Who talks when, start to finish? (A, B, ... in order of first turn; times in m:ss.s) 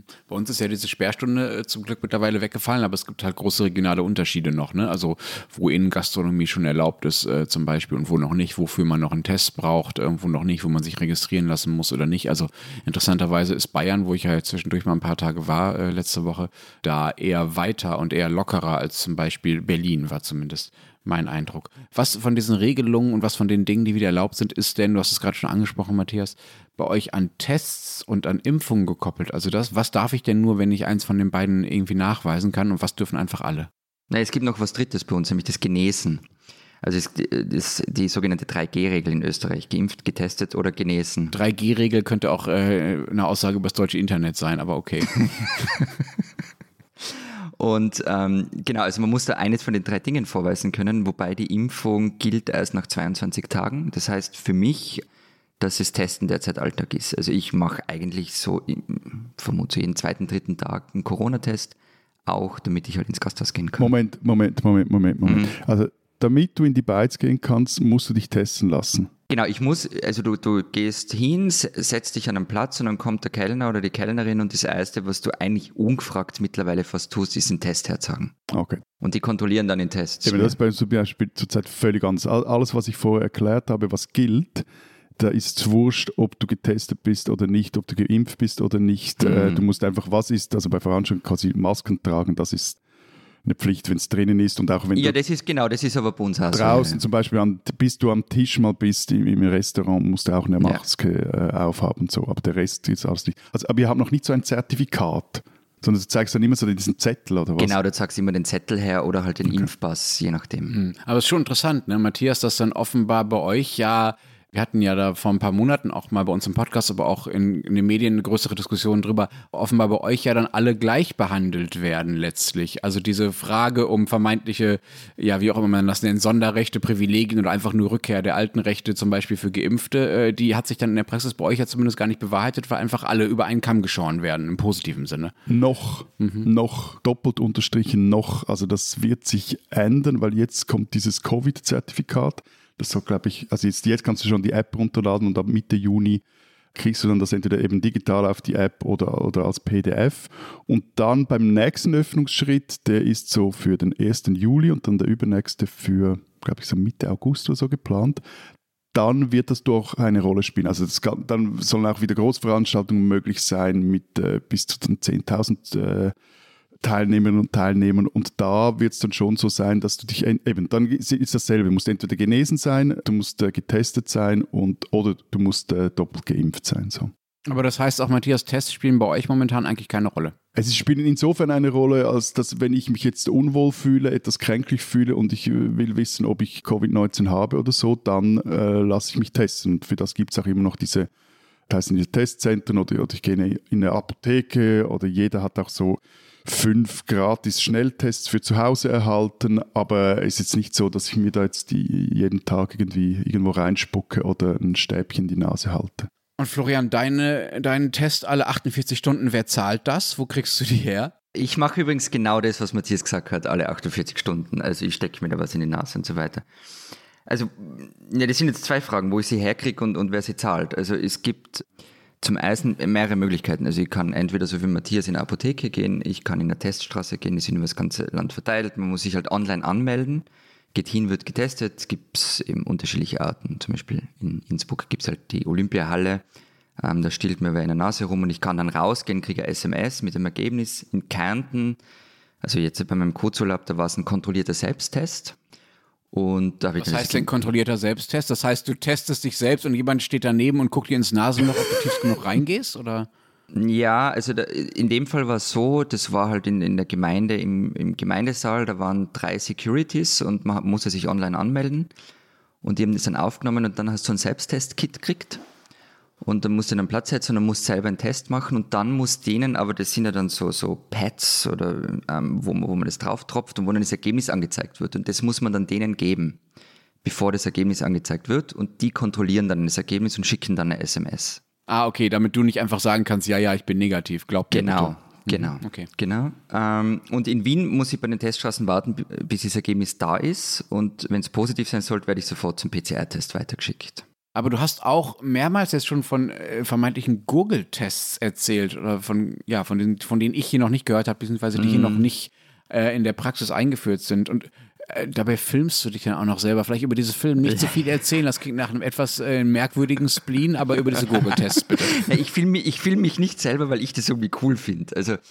0:00.3-0:33.7 A
0:34.1-0:36.2 B
0:36.8-0:41.4 B
0:41.3-0:45.2 A
0:45.1-0:46.0 B
0:47.0-0:55.0 B
0:55.6-1:01.8 B
1:02.3-1:03.9 B
1:03.8-1:09.1 C
1:05.2-1:05.5 B
1:09.3-1:18.3 B
1:18.5-1:18.8 C
1:19.0-1:20.6 B
1:20.2-1:24.7 C
1:25.2-1:32.8 C
1:29.2-1:29.6 B
1:33.4-1:35.2 C
1:35.0-1:37.0 B
1:36.5-1:47.8 C
1:47.6-1:50.8 B
1:50.7-2:15.3 A
2:15.5-2:26.2 C
2:16.2-2:16.5 A
2:26.8-2:38.2 C
2:38.9-2:46.1 C
2:46.8-2:57.1 C
2:57.5-3:00.4 A
3:00.6-3:11.1 C
3:11.7-3:26.1 C
3:26.4-3:31.1 A
3:31.4-3:36.4 B
3:37.3-3:41.6 B
3:42.2-3:56.2 B
3:56.8-4:01.8 B
4:02.4-4:05.4 B
4:06.1-4:07.3 B
4:06.8-4:13.1 A
4:13.5-4:21.9 B
4:22.6-4:25.4 B
4:26.2-4:36.4 B
4:37.0-4:41.4 B
4:41.7-4:45.9 A
4:44.5-4:54.0 B
4:54.4-5:12.1 A
5:01.6-5:02.1 B
5:07.4-5:07.8 B
5:11.8-5:15.2 B